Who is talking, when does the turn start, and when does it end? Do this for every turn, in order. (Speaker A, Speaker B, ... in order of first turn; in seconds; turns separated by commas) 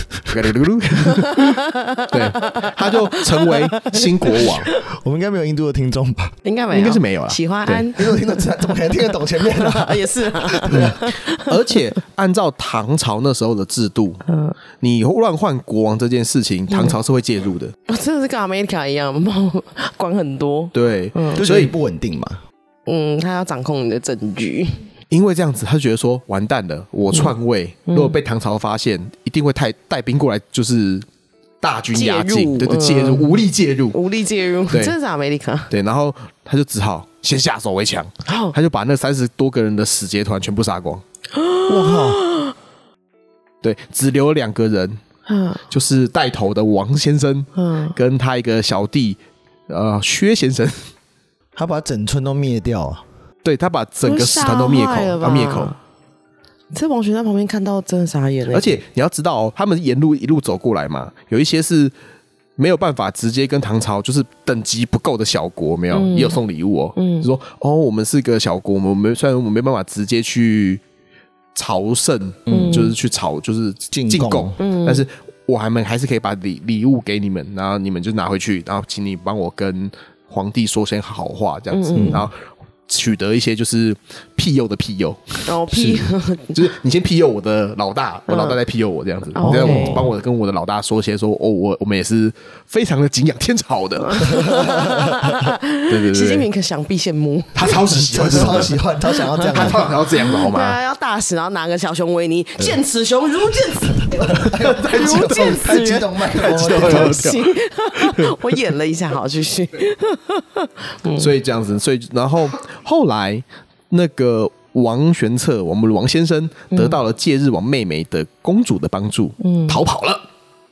Speaker A: 0.3-4.7, Speaker B: 1.0-4.8, Speaker C: 4.8-6.3, Speaker B: 6.4-11.6, Speaker A: 6.7-7.8, Speaker C: 7.8-11.0, Speaker A: 10.8-14.2, Speaker B: 14.3-14.6, Speaker A: 14.8-17.7, Speaker B: 16.7-17.0, Speaker B: 17.9-21.4, Speaker A: 20.7-21.7, Speaker C: 21.4-22.4, Speaker B: 22.9-24.8, Speaker A: 25.1-31.1, Speaker B: 27.9-28.1, Speaker A: 31.6-34.0, Speaker B: 31.9-33.4, Speaker B: 33.9-35.7, Speaker A: 35.7-41.0, Speaker B: 38.2-38.5, Speaker B: 41.3-42.5, Speaker C: 41.7-42.2, Speaker A: 43.6-45.0, Speaker B: 45.2-45.6, Speaker A: 45.7-50.9, Speaker B: 47.5-48.0, Speaker C: 51.5-53.0, Speaker A: 53.4-55.7, Speaker B: 54.0-55.8, Speaker B: 56.7-58.8, Speaker A: 58.5-61.9, Speaker A: 62.6-70.8, Speaker B: 65.9-66.4, Speaker B: 67.0-67.3, Speaker A: 71.5-82.3, Speaker C: 72.5-72.9, Speaker B: 72.5-72.9, Speaker C: 73.9-74.6, Speaker B: 74.6-75.0, Speaker B: 81.7-82.2, Speaker C: 81.9-82.2, Speaker A: 82.9-85.5, Speaker B: 85.5-86.6, Speaker C: 85.7-86.0, Speaker A: 86.5-94.2, Speaker B: 88.3-88.6, Speaker B: 89.3-90.1, Speaker C: 89.4-90.1, Speaker B: 94.0-111.3, Speaker C: 94.2-95.5, Speaker A: 95.9-96.5, Speaker A: 97.5-98.8, Speaker C: 98.0-99.9, Speaker A: 99.5-100.8, Speaker C: 103.9-107.2, Speaker A: 104.5-105.8, Speaker A: 106.3-108.6, Speaker A: 111.2-120.2, Speaker B: 116.7-117.0, Speaker B: 119.4-119.8